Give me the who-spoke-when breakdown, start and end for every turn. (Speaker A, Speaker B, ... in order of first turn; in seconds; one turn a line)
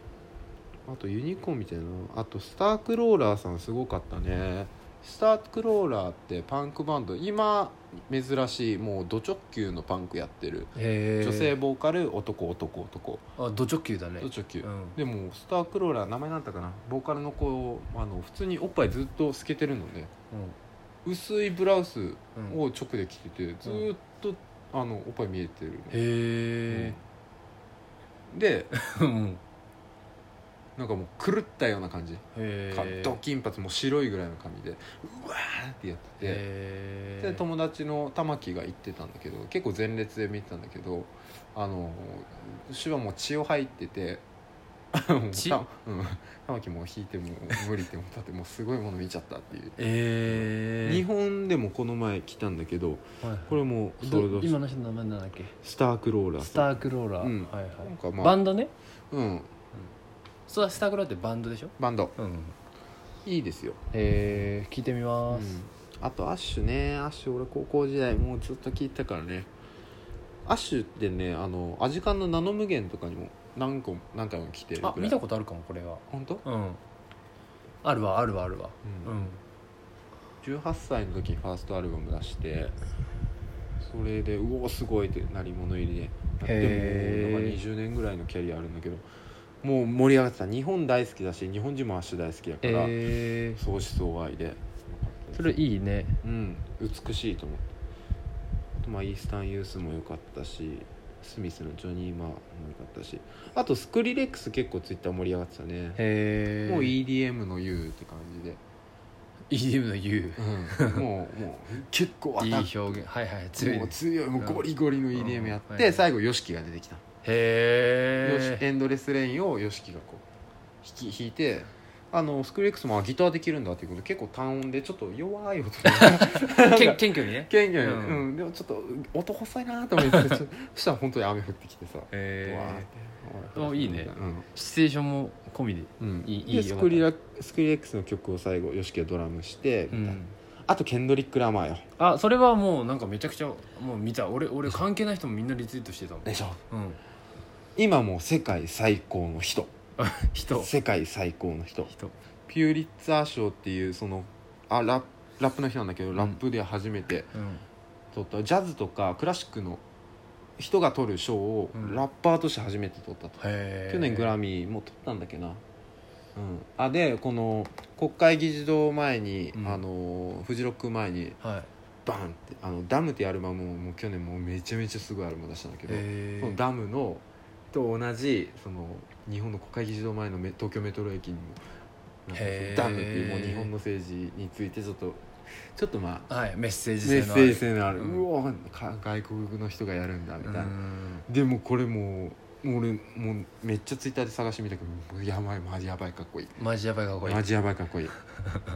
Speaker A: 0.9-13.2
Speaker B: 10.8-11.5
Speaker B: 13.4-15.0
Speaker A: 14.2-20.1
Speaker B: 20.3-20.6
Speaker A: 21.1-26.0
Speaker B: 25.9-27.0
Speaker A: 26.7-27.0
Speaker A: 28.3-28.7
Speaker B: 28.7-29.4
Speaker A: 30.8-36.4
Speaker B: 32.3-33.2
Speaker B: 36.2-37.4
Speaker A: 37.2-44.2
Speaker A: 44.9-54.6
Speaker B: 45.3-45.6
Speaker B: 49.8-51.0
Speaker B: 53.2-55.5
Speaker A: 55.6-58.4
Speaker B: 56.4-58.7
Speaker A: 59.1-59.5
Speaker B: 60.5-62.5
Speaker A: 61.8-62.1
Speaker A: 63.2-63.8
Speaker B: 63.9-65.5
Speaker A: 65.3-69.5
Speaker A: 70.5-75.2
Speaker B: 74.8-76.8
Speaker A: 76.1-76.4
Speaker B: 77.8-79.4
Speaker A: 78.8-79.2
Speaker A: 80.4-82.8
Speaker A: 83.8-89.1
Speaker B: 86.4-87.6
Speaker A: 89.6-93.0
Speaker B: 92.6-93.6
Speaker A: 93.6-95.6
Speaker B: 95.4-96.2
Speaker A: 96.2-97.7
Speaker A: 98.8-106.0
Speaker B: 106.0-106.9
Speaker A: 106.7-108.6
Speaker B: 109.5-111.0
Speaker A: 110.4-113.0
Speaker B: 112.4-116.0
Speaker A: 113.6-117.0
Speaker B: 117.2-118.6
Speaker A: 118.2-120.2
Speaker A: 120.8-134.5
Speaker B: 125.9-128.2
Speaker B: 130.1-130.4
Speaker B: 132.1-132.9
Speaker B: 133.6-137.1
Speaker A: 136.0-141.9
Speaker B: 139.9-140.3
Speaker B: 142.0-147.0
Speaker A: 146.2-146.6
Speaker A: 147.8-149.7
Speaker B: 150.0-150.7
Speaker A: 150.5-151.9
Speaker A: 152.5-157.3
Speaker B: 157.3-157.6
Speaker A: 158.1-159.8
Speaker A: 160.6-165.6
Speaker B: 161.7-162.0
Speaker B: 163.4-164.3
Speaker A: 166.3-171.4
Speaker B: 169.5-169.8
Speaker B: 171.4-171.7
Speaker A: 172.1-181.6
Speaker B: 175.9-176.6
Speaker A: 182.3-186.3
Speaker B: 182.3-183.7
Speaker B: 186.3-188.2
Speaker A: 187.0-196.5
Speaker B: 190.4-191.2
Speaker B: 196.6-197.5
Speaker A: 197.2-198.2